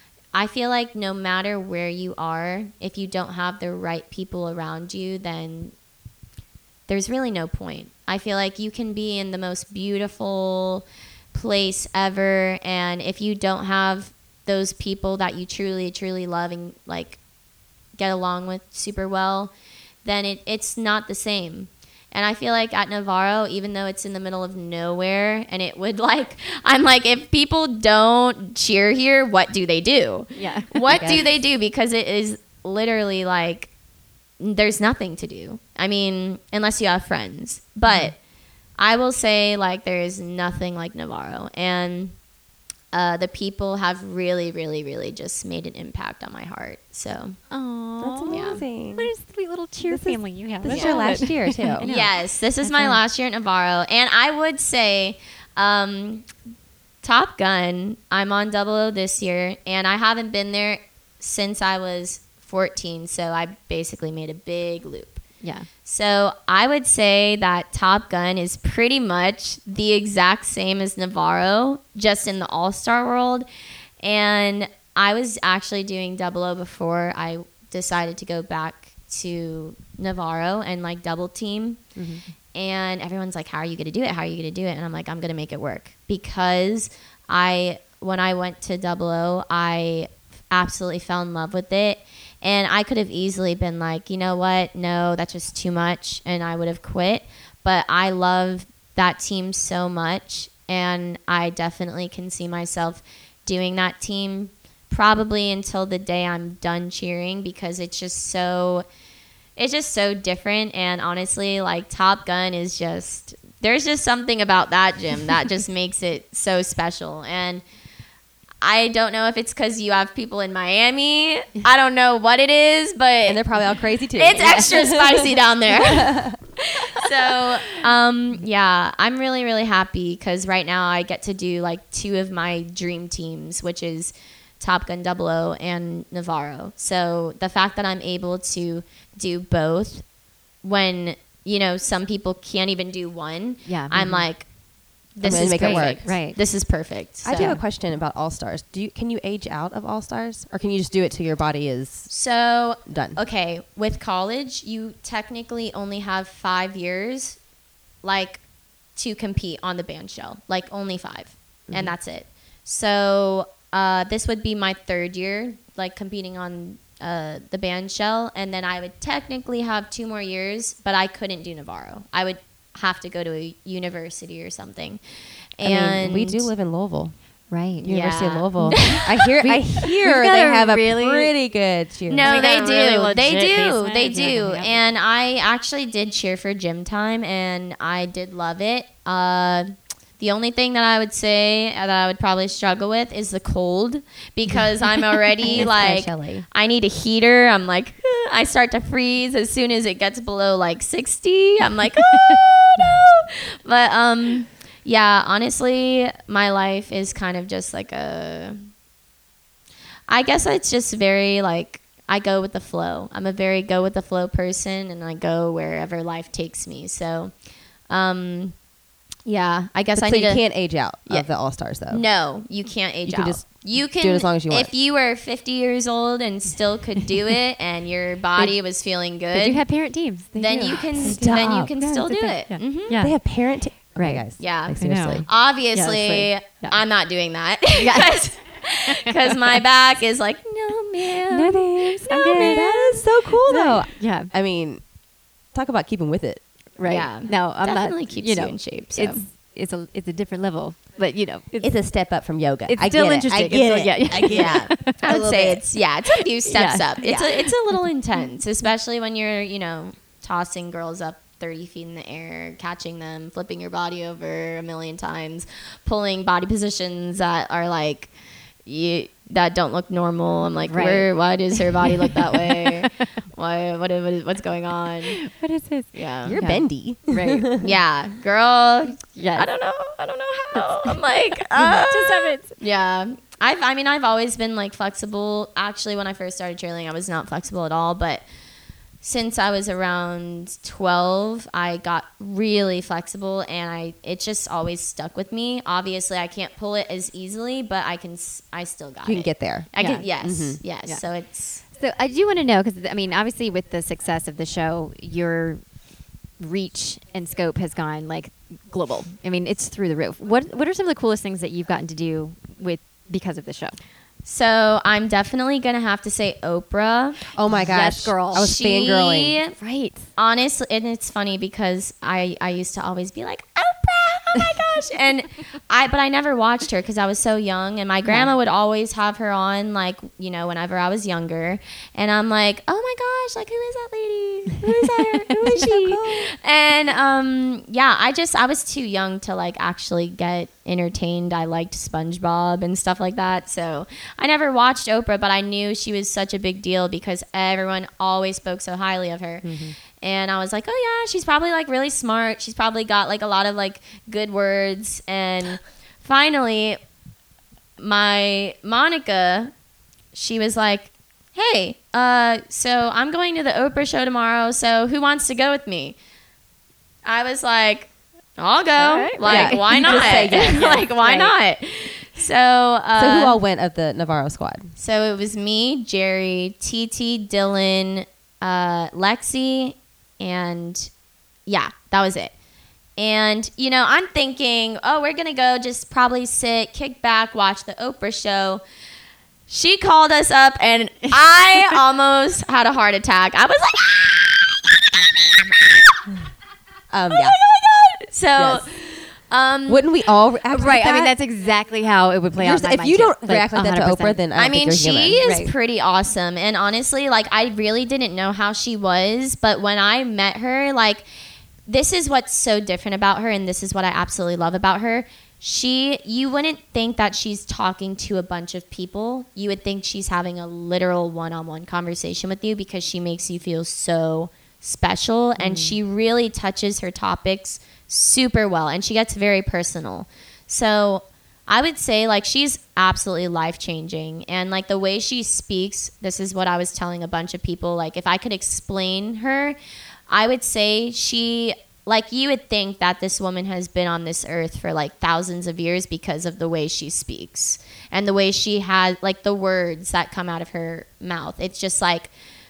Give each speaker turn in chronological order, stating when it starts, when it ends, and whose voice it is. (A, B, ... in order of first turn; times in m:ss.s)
0:00.3-0:05.7 A
0:06.9-0:17.2 A
0:18.0-0:19.5 A
0:20.0-0:33.7 A
0:30.4-0:31.2 B
0:30.9-0:31.2 C
0:34.4-0:38.2 A
0:37.9-0:38.1 B
0:38.8-0:42.1 A
0:42.9-0:47.4 A
0:47.5-0:52.1 B
0:48.0-0:49.1 C
0:48.3-0:48.6 A
0:49.9-0:51.9 C
0:50.7-0:51.1 A
0:51.8-0:56.3 A
0:52.6-0:53.0 B
0:57.0-1:05.2 A
1:05.4-1:05.7 B
1:05.8-1:13.4 A
1:14.0-1:21.8 A
1:22.0-1:22.2 C
1:22.5-1:48.8 A
1:49.6-1:57.6 A
1:58.6-2:03.5 A
2:03.2-2:06.4 C
2:04.1-2:20.0 A
2:04.4-2:04.7 B
2:20.6-2:24.5 A
2:23.6-2:24.3 B
2:25.1-2:27.6 A
2:25.2-2:26.2 C
2:25.2-2:26.4 B
2:27.2-2:32.1 C
2:27.3-2:27.6 B
2:32.1-2:37.4 A
2:32.9-2:33.2 C
2:38.0-2:38.4 A
2:38.9-2:55.0 A
2:41.7-2:41.9 C
2:55.6-2:56.5 A
2:55.6-2:57.2 C
2:57.5-2:57.9 B
2:57.8-3:02.5 C
2:57.9-2:59.1 A
2:58.6-3:01.3 B
3:02.1-3:09.7 A
3:02.2-3:04.8 B
3:10.2-3:28.6 A
3:15.5-3:16.4 C
3:15.5-3:15.9 B
3:30.1-3:37.3 A
3:37.9-3:38.5 A
3:39.2-3:49.6 A
3:39.9-3:42.1 C
3:43.1-3:44.7 C
3:49.3-3:53.3 B
3:50.4-3:53.0 A
3:51.0-3:51.8 C
3:53.0-3:55.2 C
3:53.9-3:56.8 B
3:54.4-4:03.1 A
3:57.8-3:58.2 B
3:58.9-3:59.6 B
4:01.3-4:04.3 B
4:02.3-4:04.8 C
4:05.5-4:06.4 C
4:06.8-4:11.8 B
4:06.8-4:09.2 A
4:11.6-4:15.6 C
4:12.6-4:15.1 B
4:14.2-4:28.1 A
4:16.4-4:18.3 B
4:28.6-4:35.2 A
4:30.7-4:31.1 B
4:31.8-4:32.7 B
4:35.2-4:37.5 B
4:35.9-4:36.3 A
4:36.3-4:37.7 C
4:37.6-4:48.2 A
4:39.1-4:39.5 B
4:40.6-4:41.0 B
4:41.5-4:42.6 B
4:49.0-5:01.6 A
4:59.0-4:59.7 C
4:59.8-5:00.1 B
5:00.2-5:00.6 C
5:01.8-5:05.6 B
5:06.4-5:13.8 B
5:14.2-5:17.3 A
5:17.4-5:19.4 C
5:17.6-5:18.5 B
5:18.3-5:19.5 A
5:19.6-5:20.1 B
5:20.2-5:56.8 A
5:35.4-5:36.3 C
5:49.4-5:49.7 C
5:57.8-5:59.5 A
6:00.1-6:06.0 A
6:07.1-6:13.4 A
6:08.8-6:11.3 B
6:09.2-6:10.8 C
6:13.0-6:14.7 C
6:14.8-6:20.9 A
6:21.5-6:22.3 A
6:23.0-6:28.6 A
6:29.5-6:35.7 A
6:36.9-6:37.4 C
6:37.1-6:39.8 A
6:38.4-6:38.6 C
6:39.7-6:41.1 C
6:40.5-6:44.2 B
6:42.4-6:45.3 C
6:44.4-6:51.0 A
6:45.2-6:45.5 B
6:51.7-7:19.6 A
7:05.4-7:05.8 B
7:20.1-7:32.1 A